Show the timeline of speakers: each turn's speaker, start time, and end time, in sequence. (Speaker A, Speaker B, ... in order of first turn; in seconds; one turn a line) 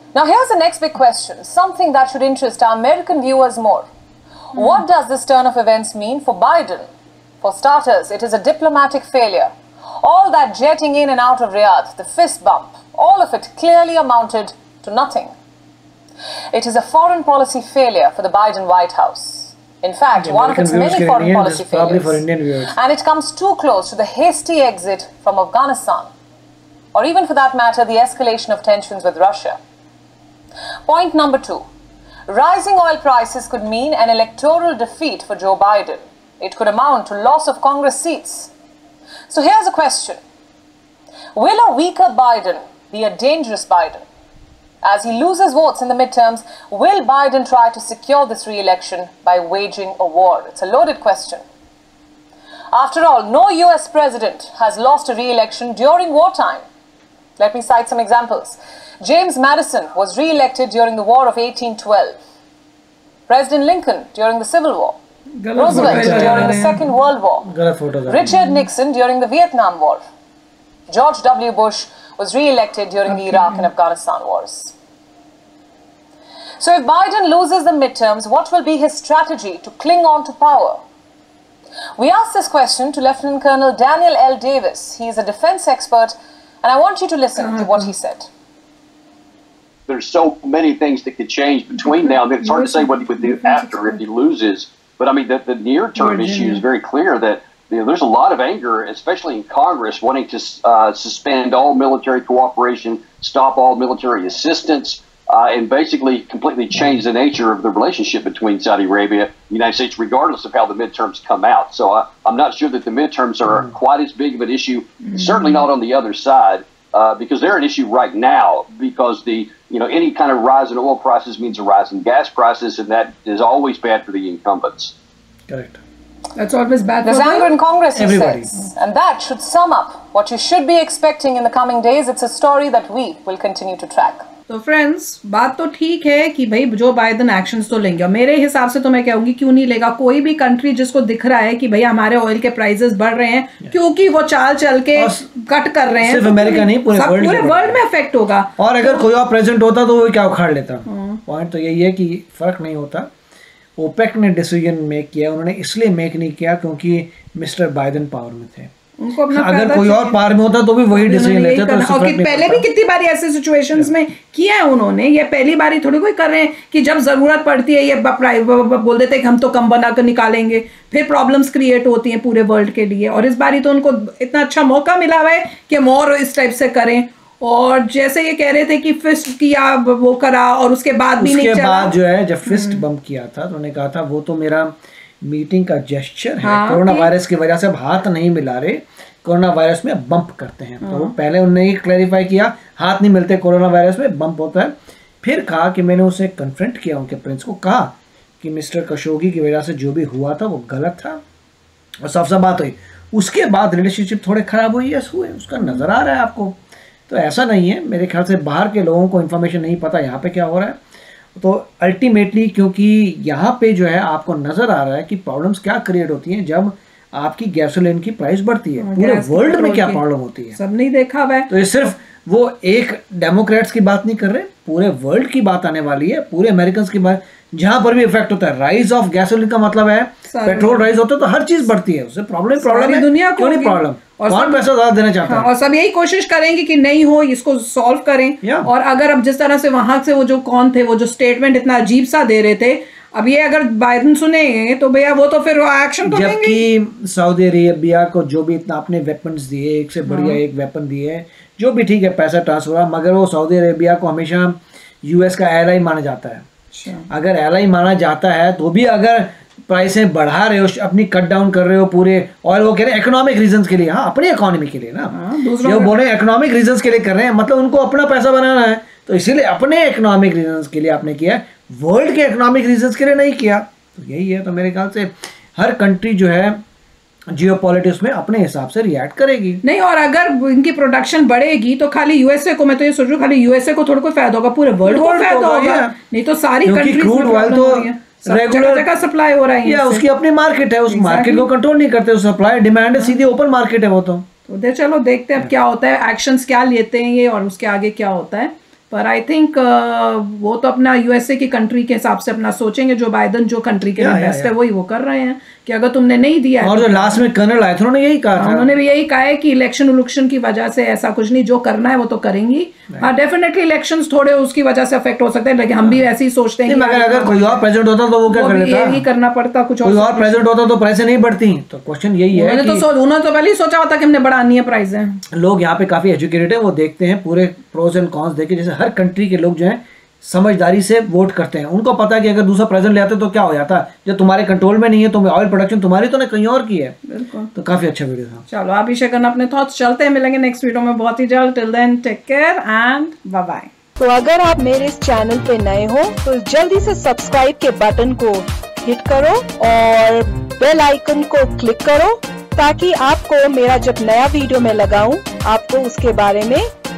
Speaker A: 0.1-3.9
Speaker A: 4.5-15.3
Speaker A: 16.5-26.1
Speaker B: 20.1-22.7
Speaker A: 26.9-29.6
Speaker A: 30.9-31.6
Speaker A: 32.3-38.5
Speaker A: 39.3-40.2
Speaker A: 41.3-44.0
Speaker A: 44.8-51.4
Speaker A: 52.7-56.6
Speaker A: 57.4-62.2
Speaker A: 63.3-65.0
Speaker C: 65.4-66.7
Speaker A: 65.5-67.5
Speaker B: 65.7-66.8
Speaker B: 67.4-68.4
Speaker A: 68.1-70.0
Speaker A: 70.9-74.7
Speaker C: 73.1-73.6
Speaker A: 76.6-80.8
Speaker A: 82.0-88.3
Speaker C: 87.4-87.9
Speaker D: 89.9-124.9
Speaker C: 91.8-94.0
Speaker C: 96.0-96.6
Speaker C: 115.0-115.5
Speaker B: 125.5-125.8
Speaker C: 126.3-127.5
Speaker A: 127.0-134.2
Speaker B: 128.0-128.6
Speaker C: 134.5-149.0
Speaker B: 144.9-145.3
Speaker B: 146.0-147.8
Speaker B: 148.6-153.1
Speaker C: 150.9-151.2
Speaker B: 153.8-158.7
Speaker C: 159.0-160.2
Speaker B: 159.3-162.7
Speaker C: 160.9-181.9
Speaker B: 181.2-201.2
Speaker C: 182.4-182.8
Speaker C: 186.4-187.1
Speaker C: 190.8-191.1
Speaker B: 202.0-206.6
Speaker B: 207.1-210.8
Speaker B: 211.3-220.6
Speaker C: 218.8-220.0
Speaker C: 220.5-221.5
Speaker B: 221.5-235.5
Speaker C: 230.3-230.9
Speaker C: 232.6-234.6
Speaker C: 235.2-246.6
Speaker B: 238.4-238.7
Speaker B: 246.0-256.5
Speaker C: 250.0-250.4
Speaker C: 256.7-257.1
Speaker B: 257.1-276.6
Speaker C: 265.1-265.9
Speaker B: 277.3-279.6
Speaker C: 279.6-290.0
Speaker B: 284.8-285.9
Speaker B: 286.6-288.9
Speaker B: 289.6-294.2
Speaker C: 290.9-291.5
Speaker C: 294.5-307.2
Speaker B: 304.0-304.5
Speaker B: 306.6-308.7
Speaker C: 308.4-317.6
Speaker B: 316.6-319.0
Speaker C: 318.3-320.4
Speaker B: 319.8-322.8
Speaker C: 322.3-325.2
Speaker B: 325.3-337.0
Speaker C: 337.1-337.5
Speaker B: 337.5-338.4
Speaker C: 338.5-343.7
Speaker E: 344.0-356.6
Speaker C: 345.2-348.3
Speaker C: 352.9-353.2
Speaker C: 353.8-354.7
Speaker C: 355.8-356.5